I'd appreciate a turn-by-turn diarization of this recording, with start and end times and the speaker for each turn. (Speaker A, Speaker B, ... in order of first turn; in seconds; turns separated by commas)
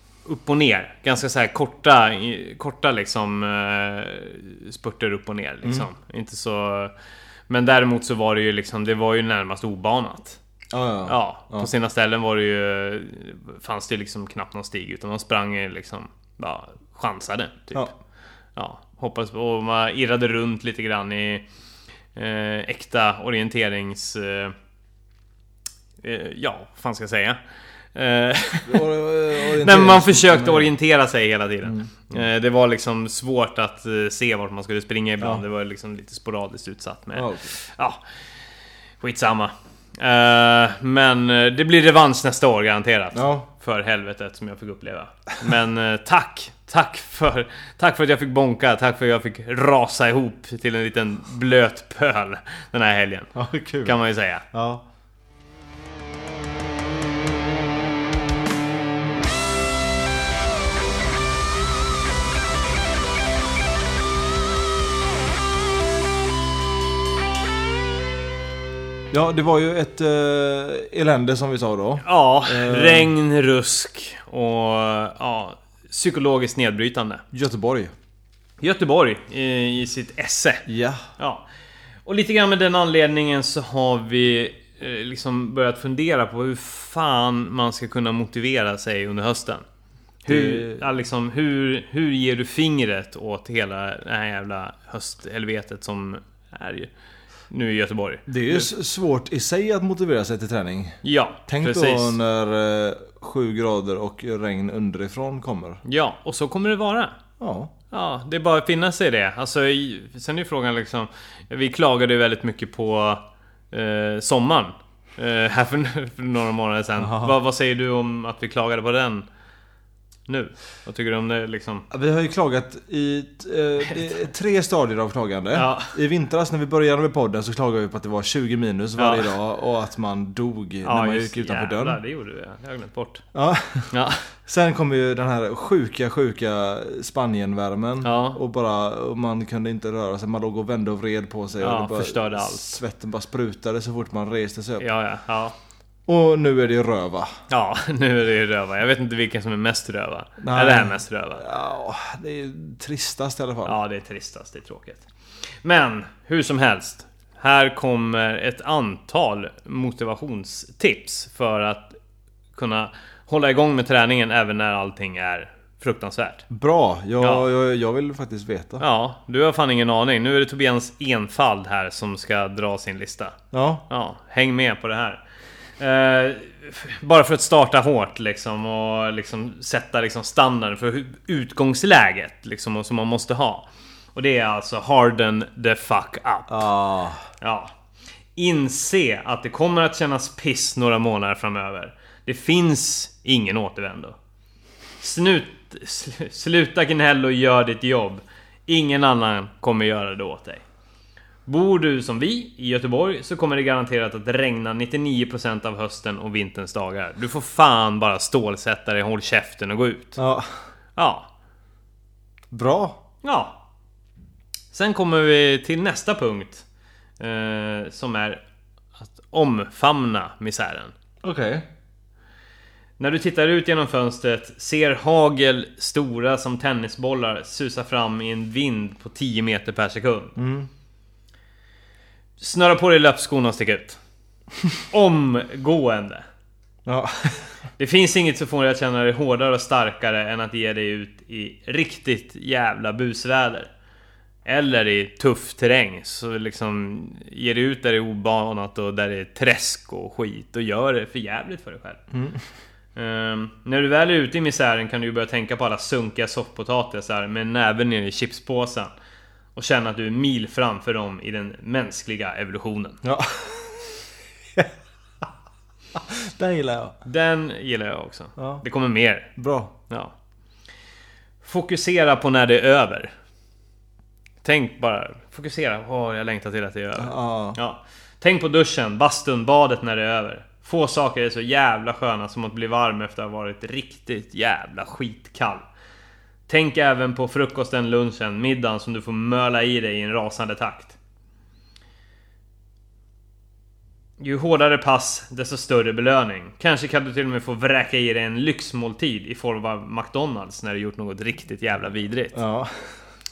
Speaker A: 0.2-6.9, Speaker A: 7.5-10.4, Speaker B: 10.7-11.7, Speaker A: 11.1-17.9, Speaker A: 18.6-21.4, Speaker A: 22.1-24.5, Speaker A: 26.0-27.4, Speaker A: 27.9-28.9, Speaker B: 28.6-30.7, Speaker A: 29.4-38.0, Speaker B: 31.6-31.9, Speaker B: 37.1-37.5, Speaker A: 39.0-53.3, Speaker B: 43.1-43.5, Speaker B: 53.4-54.0, Speaker A: 53.8-54.4, Speaker B: 54.5-54.8, Speaker B: 69.1-73.1, Speaker A: 72.0-77.2, Speaker B: 77.3-77.9, Speaker A: 78.6-80.7, Speaker B: 80.7-81.0, Speaker A: 81.2-81.5, Speaker A: 82.0-89.6, Speaker A: 90.2-96.9, Speaker B: 90.2-90.9, Speaker A: 97.5-98.7, Speaker B: 98.3-105.8, Speaker A: 101.0-102.2, Speaker A: 105.8-107.2, Speaker B: 107.4-107.7, Speaker A: 107.9-119.2, Speaker B: 117.0-117.4, Speaker A: 120.3-121.9, Speaker B: 121.9-132.0, Speaker A: 125.5-126.0, Speaker A: 129.0-129.3, Speaker A: 130.8-133.2, Speaker B: 133.3-144.9, Speaker A: 133.9-134.3, Speaker A: 138.0-138.4, Speaker A: 141.6-142.7, Speaker A: 144.8-145.6, Speaker B: 146.1-147.3, Speaker A: 147.5-151.4, Speaker B: 150.4-153.8, Speaker A: 153.6-155.0, Speaker A: 155.6-162.0, Speaker A: 162.5-166.4, Speaker B: 166.5-168.8, Speaker A: 167.2-167.5, Speaker A: 168.8-173.4, Speaker B: 173.5-173.8, Speaker A: 173.9-175.2, Speaker A: 175.8-186.7, Speaker B: 186.5-187.2, Speaker A: 187.4-187.7, Speaker A: 188.4-194.2, Speaker A: 195.0-200.6, Speaker A: 201.4-210.2, Speaker B: 210.2-210.5, Speaker A: 210.9-211.3, Speaker B: 212.5-213.0, Speaker A: 213.2-213.6, Speaker A: 214.7-216.6, Speaker A: 217.2-218.4, Speaker A: 219.0-220.9, Speaker B: 221.2-221.7, Speaker A: 223.0-230.3, Speaker B: 230.4-230.7, Speaker A: 232.4-234.0, Speaker A: 234.9-236.2, Speaker B: 236.8-237.5, Speaker A: 237.8-243.7, Speaker A: 244.4-252.0, Speaker B: 252.1-252.4, Speaker A: 252.9-258.9, Speaker A: 259.5-263.0, Speaker B: 263.0-264.0, Speaker B: 265.9-266.9, Speaker A: 267.0-269.3, Speaker B: 268.4-268.6, Speaker B: 269.4-269.7, Speaker A: 269.9-270.1, Speaker A: 271.4-273.1, Speaker A: 274.4-285.6, Speaker B: 277.0-277.6, Speaker A: 286.5-290.9, Speaker A: 294.2-302.4, Speaker B: 302.3-302.9